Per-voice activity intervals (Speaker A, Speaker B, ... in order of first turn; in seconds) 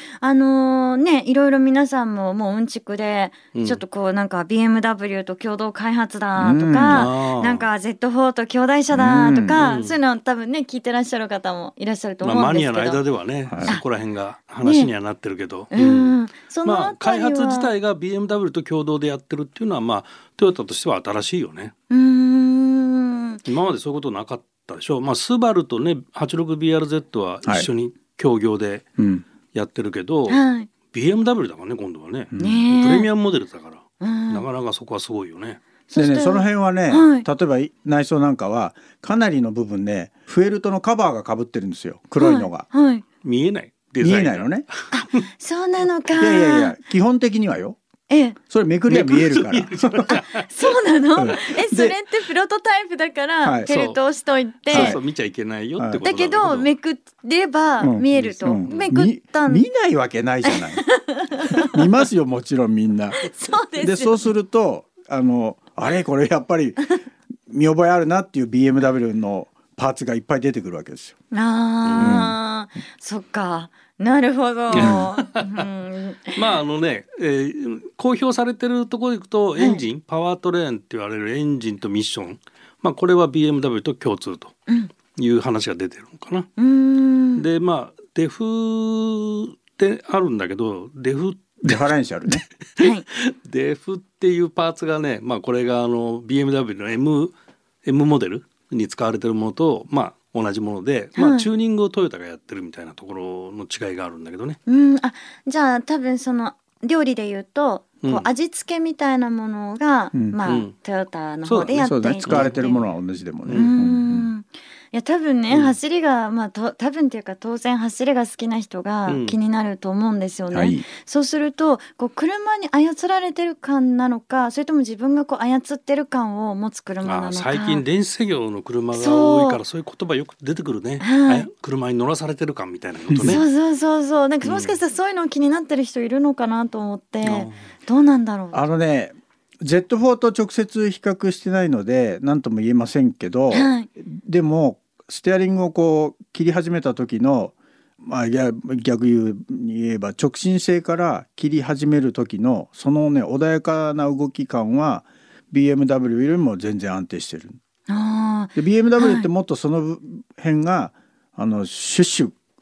Speaker A: 0.2-13.0, 14.6-14.9, 15.7-17.7, 21.9-23.4, 30.3-30.7, 32.4-33.1, 34.0-34.5, 35.9-37.3, 42.2-43.0, 44.9-46.8, 48.1-48.4, 50.1-55.0, 56.0-59.7, 60.5-61.9, 63.2-64.3, 71.3-76.4, 79.6-79.8, 86.6-87.4, 92.8-93.0, 101.2-101.5, 104.7-112.8, 113.5-127.8, 128.9-129.6, 131.0-131.5, 133.2-138.6, 143.5-143.9, 157.9-159.3
Speaker B: 3.5-3.8, 6.9-7.7, 9.6-10.0, 12.2-21.7, 23.5-28.8, 29.5-35.6, 43.2-44.9, 48.9-50.5, 53.7-54.0, 54.7-56.7, 58.6-58.9, 71.8-72.2, 74.7-75.7, 76.3-84.5, 85.2-86.5, 87.4-97.3, 97.8-104.6, 108.0-108.3, 110.5-110.7, 111.5-112.7, 115.5-115.8, 119.1-119.4, 127.0-133.4, 134.4-134.8, 137.2-137.6
Speaker C: 6.3-7.1, 8.9-9.6, 13.5-13.8, 29.0-29.3, 32.3-32.6, 35.9-42.7, 44.0-44.7, 46.2-47.8, 48.5-50.2, 51.2-52.0, 53.4-53.7, 54.7-55.0, 55.8-56.0, 57.8-60.8, 61.6-63.2, 63.8-66.8, 67.5-71.2, 72.0-72.4, 74.8-75.1, 91.6-92.5, 111.7-114.3, 120.5-120.9, 133.1-133.4, 138.5-157.6, 158.6-162.3